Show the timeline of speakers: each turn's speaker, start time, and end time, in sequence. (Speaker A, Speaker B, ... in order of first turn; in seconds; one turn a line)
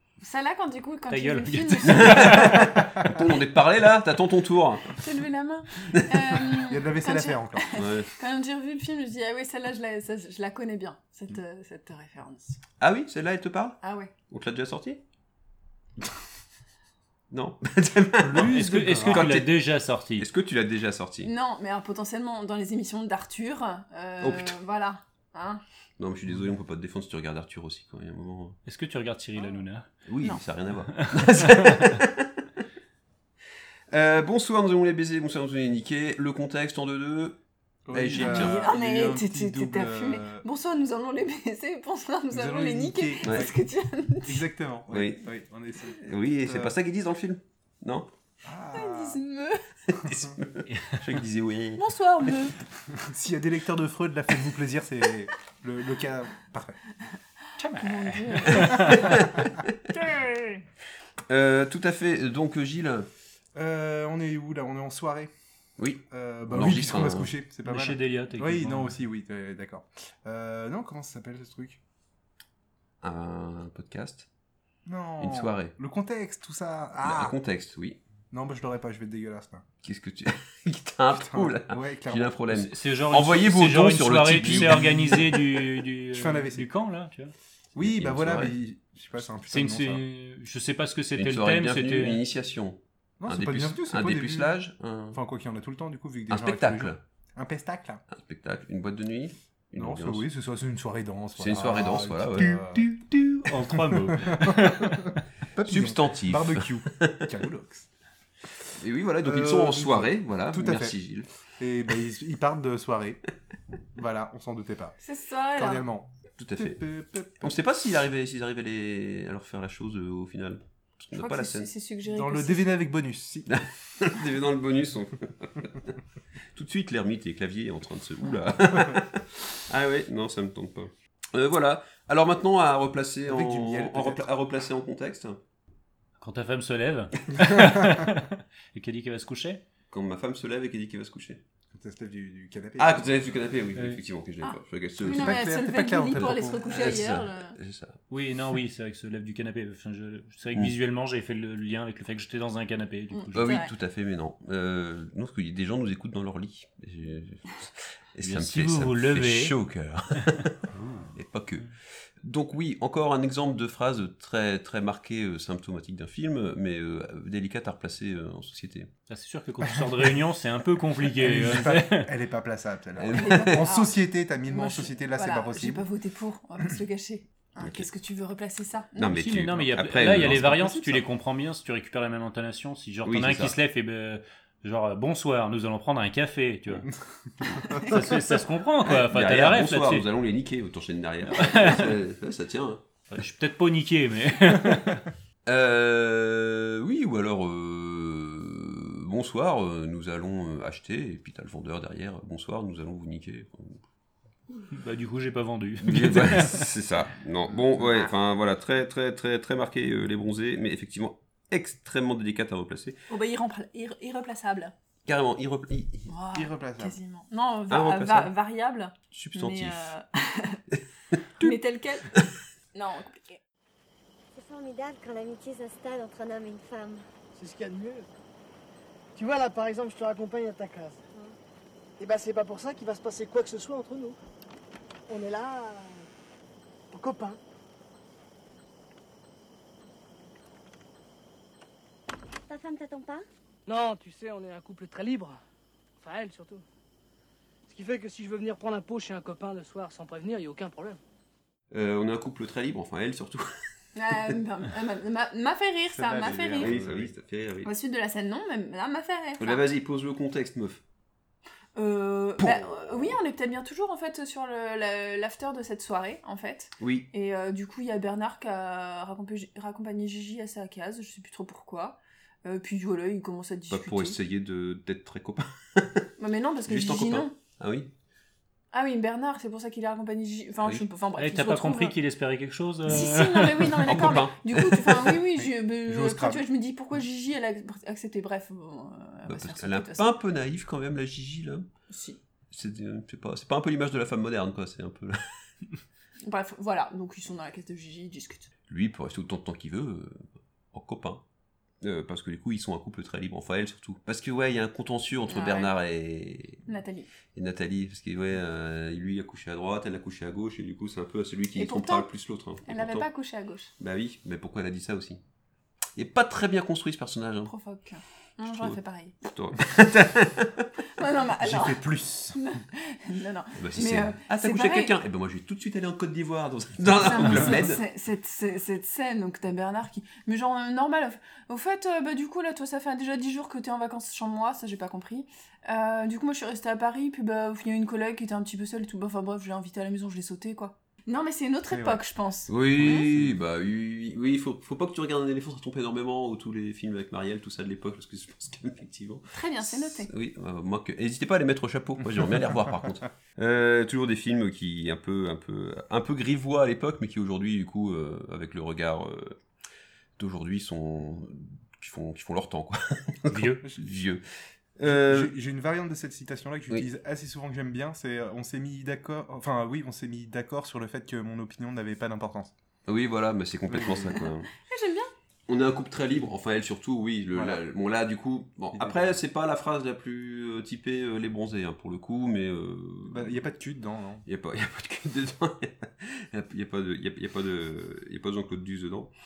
Speaker A: 0.2-2.5
Speaker B: 1.1-2.7
Speaker C: 1.9-5.0
Speaker A: 4.9-12.6
Speaker C: 5.8-6.4
Speaker D: 6.7-7.7
Speaker C: 7.7-8.1
Speaker C: 12.8-15.0
Speaker A: 13.8-14.1
Speaker C: 17.3-19.6
Speaker D: 18.2-19.4
Speaker B: 18.3-20.3
Speaker C: 20.2-21.3
Speaker A: 21.2-25.6
Speaker C: 24.2-24.6
Speaker C: 26.0-28.6
Speaker B: 28.6-29.9
Speaker C: 30.1-32.3
Speaker B: 30.9-31.9
Speaker C: 33.9-37.4
Speaker D: 37.9-40.4
Speaker C: 37.9-38.6
Speaker A: 38.1-44.4
Speaker D: 42.3-43.5
Speaker D: 44.2-46.8
Speaker C: 44.9-45.2
Speaker C: 46.0-48.1
Speaker D: 48.4-49.2
Speaker A: 48.7-49.6
Speaker C: 49.9-51.8
Speaker A: 51.8-52.5
Speaker D: 52.9-56.8
Speaker B: 57.6-58.9
Speaker A: 57.7-59.0
Speaker C: 58.5-59.7
Speaker C: 61.3-63.1
Speaker D: 63.6-65.3
Speaker C: 65.8-67.3
Speaker D: 66.1-71.8
Speaker B: 67.6-68.9
Speaker C: 73.0-74.3
Speaker D: 74.9-77.4
Speaker C: 75.2-75.7
Speaker C: 77.0-78.0
Speaker D: 78.3-79.6
Speaker C: 79.8-85.2
Speaker D: 81.1-82.4
Speaker B: 82.5-87.3
Speaker D: 84.4-85.4
Speaker D: 86.1-86.7
Speaker C: 87.8-88.5
Speaker D: 87.8-90.0
Speaker B: 89.5-92.2
Speaker C: 91.2-95.2
Speaker D: 93.2-94.6
Speaker D: 95.1-98.0
Speaker C: 96.3-97.0
Speaker C: 98.1-100.2
Speaker D: 99.8-102.9
Speaker C: 101.4-102.6
Speaker B: 103.0-105.2
Speaker D: 104.1-105.0
Speaker D: 105.5-107.9
Speaker C: 105.7-107.2
Speaker C: 108.8-111.3
Speaker D: 109.2-111.0
Speaker D: 111.6-113.2
Speaker D: 113.9-114.9
Speaker A: 115.0-115.9
Speaker D: 115.5-117.6
Speaker C: 116.4-116.8
Speaker C: 117.4-121.7
Speaker A: 121.1-122.8
Speaker D: 122.0-123.5
Speaker C: 123.5-126.0
Speaker C: 126.5-135.4
Speaker D: 133.2-134.3
Speaker B: 136.2-139.6
Speaker C: 139.9-141.4
Speaker D: 141.7-143.3
Speaker C: 142.8-145.6
Speaker B: 143.8-144.0
Speaker A: 144.4-147.6
Speaker D: 145.0-146.9
Speaker C: 146.1-148.0
Speaker B: 148.1-153.6
Speaker A: 153.1-153.7
Speaker C: 153.3-160.6
Speaker B: 158.2-159.6
Speaker B: 160.7-161.1
Speaker C: 161.1-161.7
Speaker C: 162.2-168.9
Speaker B: 169.1-172.1
Speaker D: 171.2-175.9
Speaker C: 173.0-173.7
Speaker A: 173.1-179.1
Speaker C: 177.6-177.9
Speaker C: 178.9-181.0
Speaker B: 179.0-186.9
Speaker C: 183.1-183.6
Speaker D: 187.5-187.9
Speaker B: 187.9-190.1
Speaker C: 188.9-192.8
Speaker B: 191.3-192.0
Speaker B: 193.1-195.1
Speaker C: 195.4-203.8
Speaker B: 204.7-206.7
Speaker C: 205.8-213.0
Speaker A: 213.1-214.7
Speaker C: 215.1-216.1
Speaker A: 216.1-220.6
Speaker D: 216.3-217.0
Speaker C: 217.7-218.3
Speaker C: 219.1-219.9
Speaker A: 221.4-222.1
Speaker A: 222.7-223.4
Speaker E: 224.3-227.0
Speaker F: 227.3-228.1
Speaker F: 229.1-231.0
Speaker F: 232.0-234.2
Speaker F: 235.1-236.1
Speaker F: 236.9-237.4
Speaker E: 242.5-243.2
Speaker F: 243.7-245.4
Speaker F: 246.0-246.6
Speaker F: 247.7-251.0
Speaker C: 251.7-253.5
Speaker A: 253.9-256.8
Speaker D: 255.9-257.1
Speaker C: 256.6-257.7
Speaker A: 257.6-259.6
Speaker C: 259.4-260.8
Speaker A: 261.8-274.2
Speaker C: 262.4-263.2
Speaker C: 266.8-267.1
Speaker C: 273.7-276.1
Speaker A: 276.2-277.3
Speaker C: 276.7-277.9
Speaker A: 278.7-281.9
Speaker B: 281.2-284.0
Speaker A: 282.9-290.1
Speaker C: 283.8-285.2
Speaker D: 285.4-286.4
Speaker C: 289.3-291.6
Speaker A: 291.9-292.2
Speaker C: 292.5-295.2
Speaker A: 296.2-298.5
Speaker C: 298.7-301.2
Speaker C: 301.8-306.6
Speaker A: 305.3-305.7
Speaker A: 306.6-307.1
Speaker C: 307.3-313.1
Speaker A: 311.6-312.1
Speaker A: 312.6-313.7
Speaker C: 313.8-315.2
Speaker C: 315.9-317.5
Speaker A: 317.5-319.1
Speaker C: 318.4-320.7
Speaker A: 321.0-321.8
Speaker D: 321.4-322.4
Speaker A: 322.3-324.9
Speaker C: 323.6-327.8
Speaker A: 327.0-343.1
Speaker D: 341.7-342.0
Speaker C: 342.5-359.4
Speaker A: 349.3-350.1
Speaker C: 360.2-364.2
Speaker B: 363.3-363.6
Speaker C: 364.8-365.3
Speaker D: 364.8-372.5
Speaker C: 372.9-374.5
Speaker D: 373.7-374.1
Speaker A: 374.6-375.1
Speaker C: 375.5-383.4
Speaker D: 377.3-377.6
Speaker D: 378.7-379.2
Speaker D: 383.1-384.2
Speaker C: 384.2-389.1